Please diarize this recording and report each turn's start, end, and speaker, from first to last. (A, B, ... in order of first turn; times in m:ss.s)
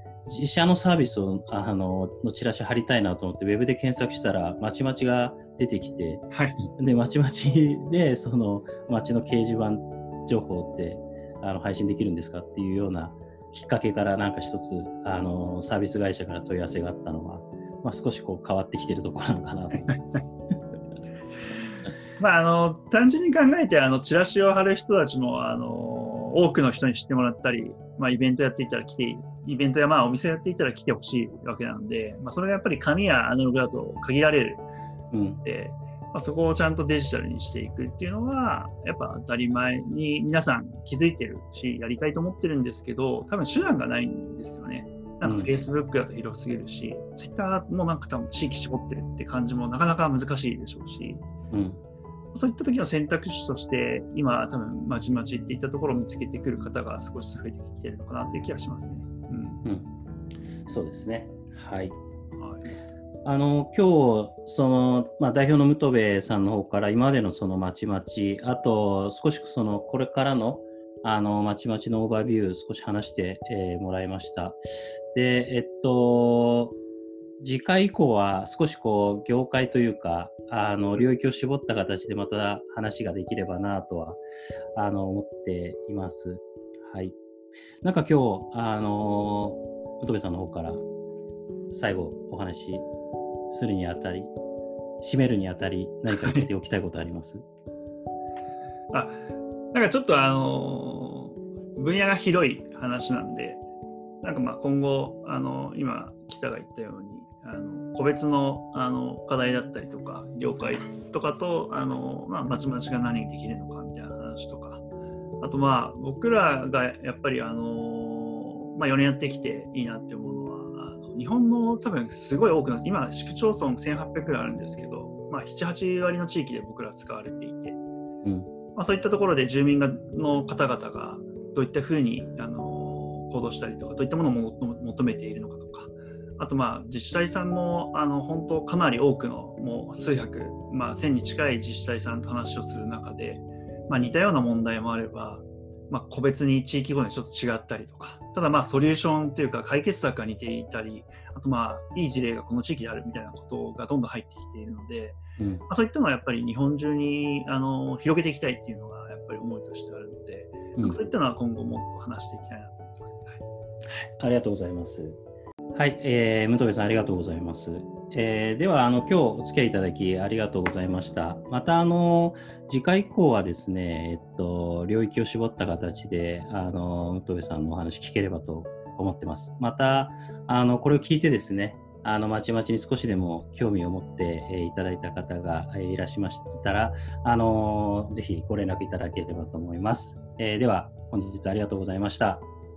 0:00.3-0:06.3 A
0:06.3-0:06.7 B
0:06.8-0:19.9 A
0:19.9-0:20.2 B
0:22.2-0:34.6 B
0:35.1-0:35.4 A
0:35.4-0:51.2 B
0:45.2-0:45.5 A
0:51.5-0:51.8 A
0:52.3-0:59.6 B
0:59.6-0:59.9 A
1:00.6-1:01.9 A
1:02.4-1:02.7 B
1:03.2-1:14.6 A
1:15.1-1:16.8 A
1:17.4-1:24.2 A
1:24.8-1:27.2 A
1:27.8-1:30.8 A
1:31.7-1:32.9 A
1:33.5-1:34.3 A
1:35.0-1:37.4 A
1:36.1-1:36.5 B
1:38.9-1:39.2 B
1:39.7-1:43.6 B
1:44.2-1:54.8 B
1:55.4-2:07.8 B
2:08.2-2:08.5 A
2:08.8-2:43.4 B
2:35.4-2:35.6 A
2:43.9-2:45.2 A
2:45.7-3:12.4 A